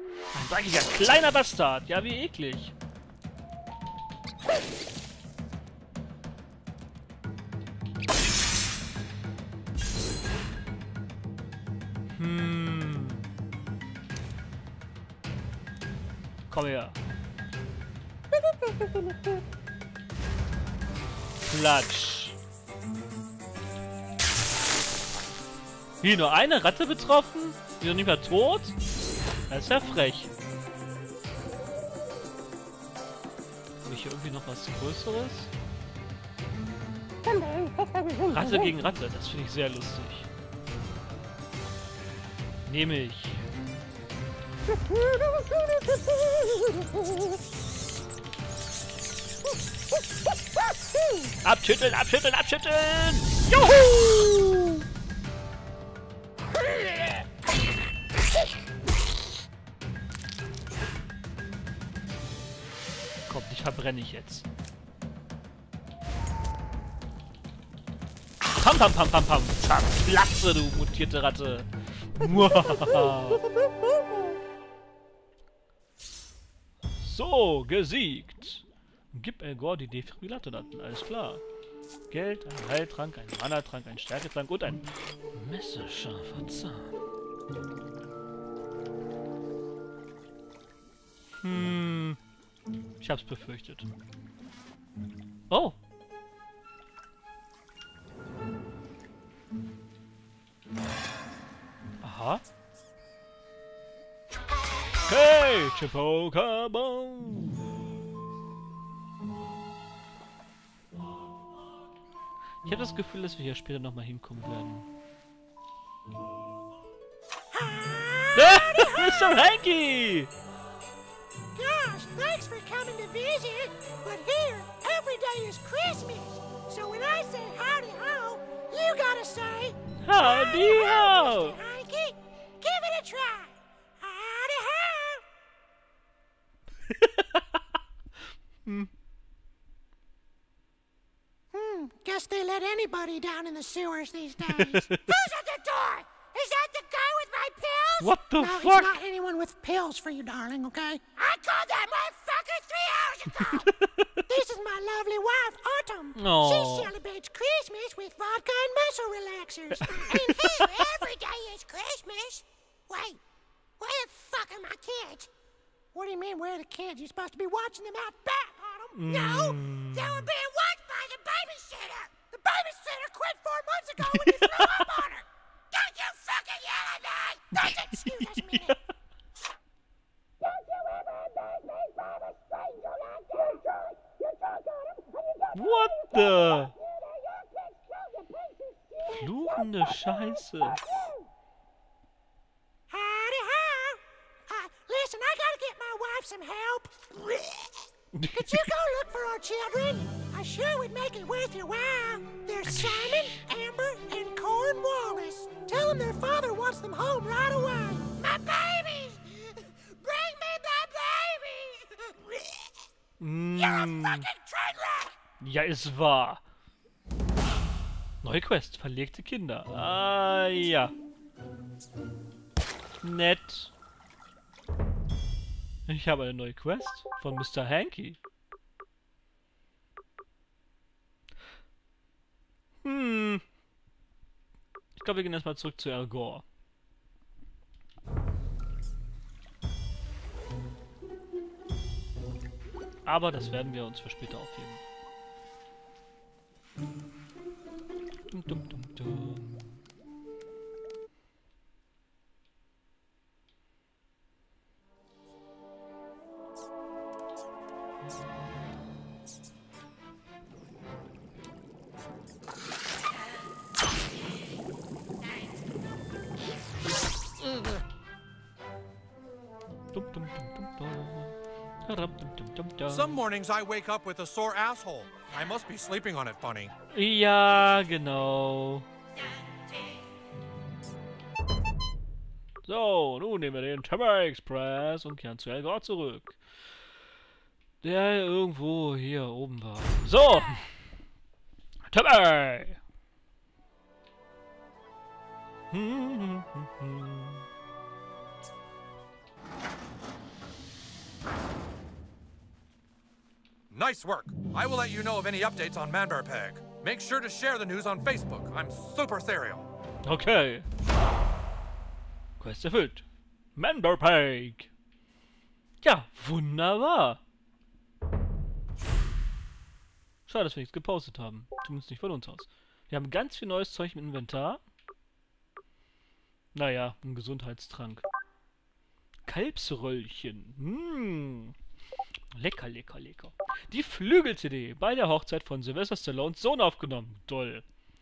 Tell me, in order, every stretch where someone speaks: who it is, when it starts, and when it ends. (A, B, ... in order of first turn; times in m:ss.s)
0:00.3-0:02.7 A
0:12.2-0:13.2 A
0:16.5-0:17.0 A
0:21.5-0:22.4 A
0:26.0-0:28.8 A
0:29.5-0:30.3 A
0:33.8-0:35.5 A
0:38.3-0:40.3 A
0:42.7-0:43.4 A
0:51.4-0:54.8 A
1:03.3-1:04.4 A
1:08.4-1:13.4 A
1:17.0-1:21.4 A
1:22.1-1:26.9 A
1:31.4-1:32.2 A
1:33.0-1:33.9 A
1:35.5-1:35.8 A
1:42.0-1:42.4 A
1:45.1-1:47.6 A
1:52.6-1:54.9 A
1:57.5-1:59.5 B
1:58.3-2:00.3 A
2:01.5-2:15.2 B
2:10.0-2:11.6 A
2:16.9-2:17.6 A
2:18.6-2:18.9 A
2:21.5-2:33.7 B
2:24.4-2:25.1 A
2:28.0-2:29.0 A
2:33.4-2:34.3 A
2:34.3-2:43.2 B
2:36.2-2:36.9 A
2:39.8-2:41.0 A
2:43.8-2:45.3 B
2:45.9-2:58.8 B
2:48.9-2:50.3 A
2:54.1-2:54.9 A
2:57.5-2:58.8 A
3:01.0-3:03.9 B
3:05.5-3:06.7 A
3:09.1-3:10.8 A
3:12.9-3:17.7 B
3:18.1-3:18.7 A
3:18.3-3:32.7 B
3:22.7-3:23.4 A
3:33.2-3:34.3 A
3:33.6-3:35.2 B
3:35.4-3:36.4 A
3:38.2-3:40.9 A
3:43.0-3:43.7 A
3:45.9-3:48.2 A
3:52.8-3:53.4 A
3:55.0-3:56.4 A
4:03.1-4:04.8 A
4:08.3-4:09.8 A
4:29.9-4:33.2 A
4:32.9-4:36.7 C
4:36.9-4:38.9 A
4:42.6-4:46.4 A
4:47.8-4:50.8 A
4:51.9-4:52.8 A
4:55.7-4:57.5 A
5:03.7-5:09.7 C
5:10.0-5:10.7 A
5:12.4-5:13.0 A
5:13.6-5:14.7 A
5:15.8-5:17.2 A
5:20.3-5:24.6 A
5:26.5-5:28.1 A
5:29.3-5:31.6 A
5:32.3-5:37.6 A